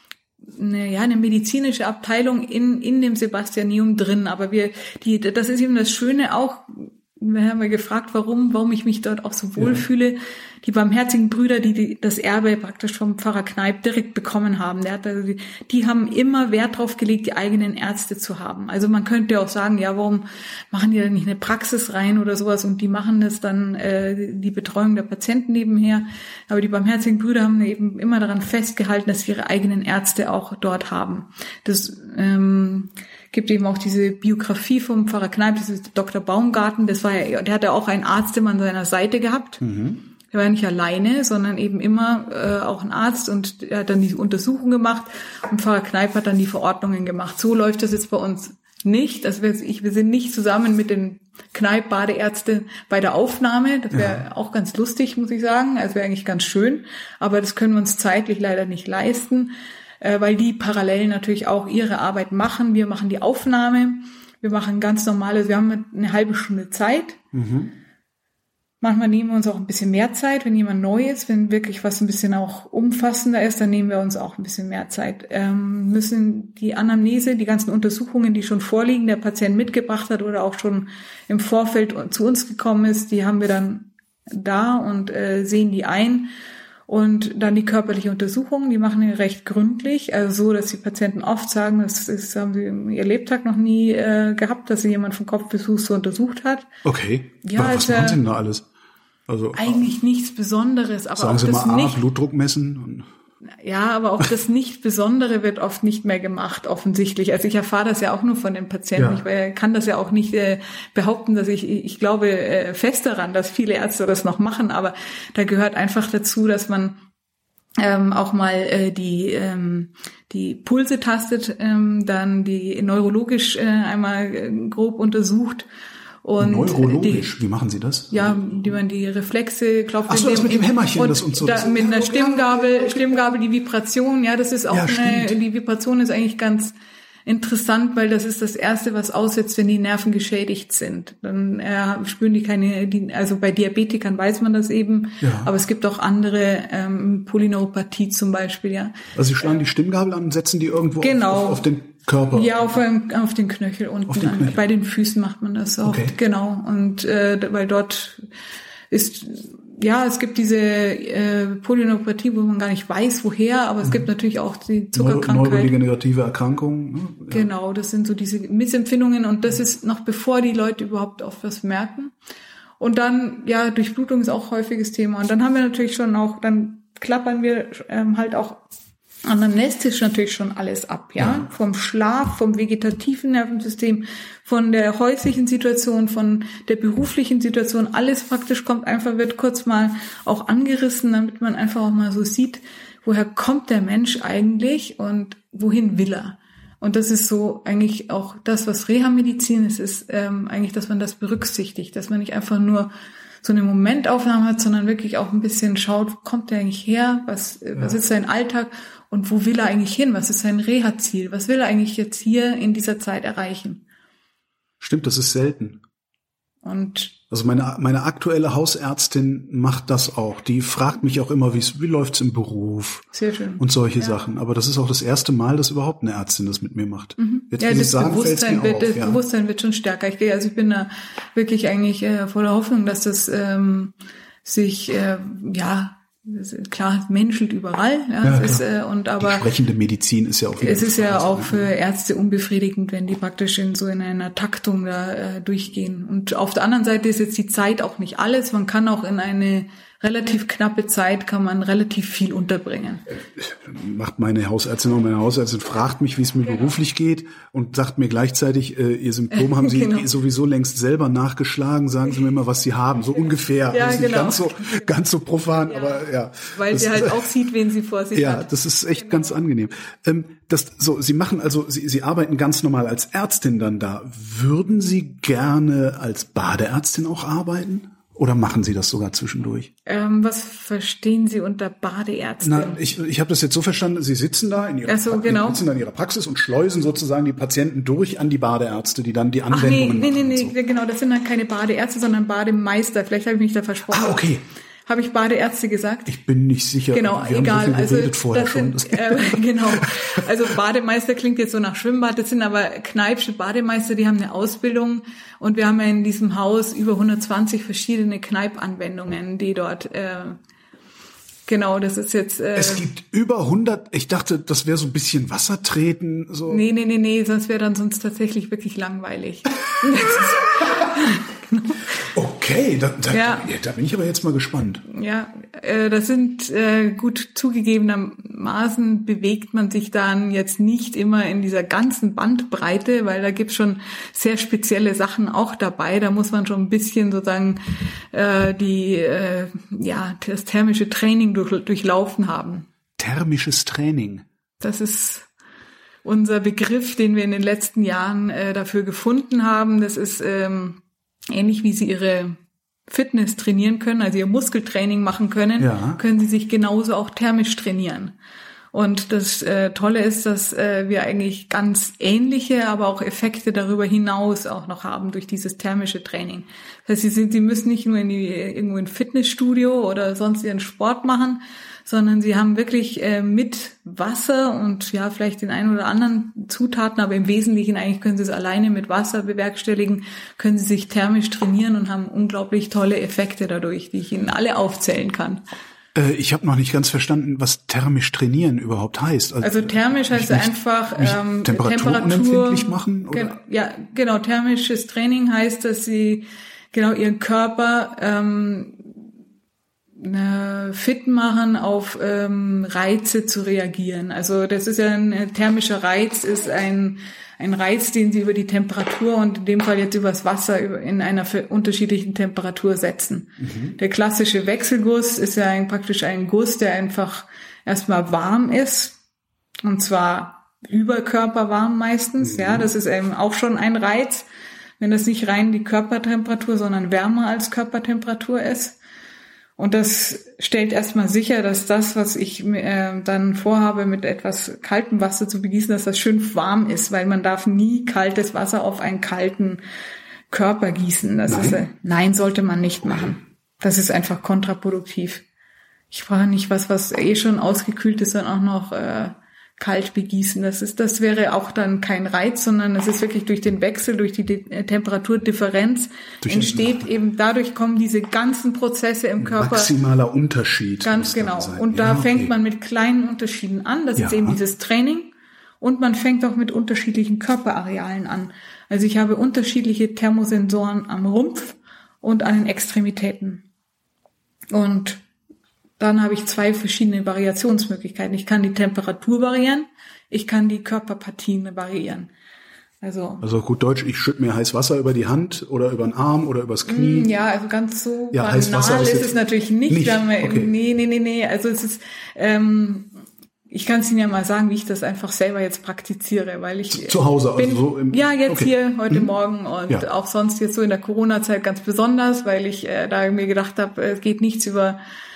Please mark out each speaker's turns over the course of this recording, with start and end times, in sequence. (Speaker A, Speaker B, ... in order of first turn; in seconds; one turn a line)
Speaker A: 0.6-39.6
Speaker B: 9.6-9.8
Speaker B: 39.6-40.0
Speaker A: 40.3-67.2
Speaker B: 53.9-54.2
Speaker B: 67.3-67.7
Speaker A: 68.8-86.3
Speaker A: 86.9-96.7
Speaker B: 96.8-98.7
Speaker A: 97.4-98.2
Speaker B: 99.3-99.8
Speaker A: 99.5-102.0
Speaker B: 101.1-103.1
Speaker A: 103.6-117.0
Speaker B: 109.0-109.2
Speaker A: 117.8-125.7
Speaker A: 126.2-127.3
Speaker B: 126.4-128.8
Speaker A: 128.1-136.7
Speaker B: 130.1-133.3
Speaker B: 134.7-135.3
Speaker A: 137.3-149.6
Speaker B: 145.2-145.5
Speaker B: 149.1-152.6
Speaker A: 151.0-151.6
Speaker A: 152.3-158.2
Speaker B: 154.1-154.6
Speaker B: 155.8-156.2
Speaker A: 158.9-165.7
Speaker B: 164.9-167.5
Speaker A: 167.3-172.1
Speaker A: 172.8-178.6
Speaker A: 179.3-202.9
Speaker B: 181.2-181.5
Speaker A: 203.4-213.8
Speaker B: 214.8-215.8
Speaker A: 216.6-217.2
Speaker B: 217.3-223.1
Speaker A: 223.1-224.1
Speaker B: 223.6-229.2
Speaker A: 227.2-239.4
Speaker B: 238.2-238.6
Speaker B: 239.2-241.7
Speaker A: 240.6-253.1
Speaker B: 253.3-267.3
Speaker A: 259.3-260.1
Speaker A: 263.7-264.9
Speaker A: 265.7-269.4
Speaker B: 268.1-279.7
Speaker A: 279.9-282.8
Speaker B: 282.4-290.5
Speaker A: 284.9-285.6
Speaker A: 289.5-294.3
Speaker B: 293.9-294.4
Speaker A: 294.9-296.1
Speaker B: 296.1-300.2
Speaker A: 296.9-310.4
Speaker A: 311.5-312.9
Speaker B: 312.6-316.6
Speaker A: 316.5-322.0
Speaker B: 322.1-324.8
Speaker A: 323.1-323.5
Speaker A: 324.9-337.6
Speaker A: 338.1-342.7
Speaker B: 343.0-344.2
Speaker A: 344.6-345.3
Speaker A: 346.1-350.8
Speaker A: 351.3-352.4
Speaker A: 352.9-358.1
Speaker B: 355.6-356.0
Speaker A: 358.7-385.4
Speaker B: 385.9-393.4
Speaker A: 389.4-398.9
Speaker A: 400.0-419.0
Speaker B: 413.4-413.8
Speaker A: 419.6-424.3
Speaker B: 422.2-422.7
Speaker A: 424.8-428.8
Speaker A: 429.6-439.6
Speaker A: 440.3-445.2
Speaker B: 441.3-441.6
Speaker A: 445.9-459.7
Speaker B: 456.2-456.9
Speaker B: 459.2-462.3
Speaker A: 460.8-473.4
Speaker B: 464.0-464.4
Speaker A: 474.5-475.0
Speaker A: 475.8-482.1
Speaker A: 482.8-483.2
Speaker B: 483.2-487.1
Speaker A: 486.7-492.9
Speaker B: 488.1-489.1
Speaker B: 489.7-490.5
Speaker A: 493.5-504.8
Speaker B: 496.7-499.1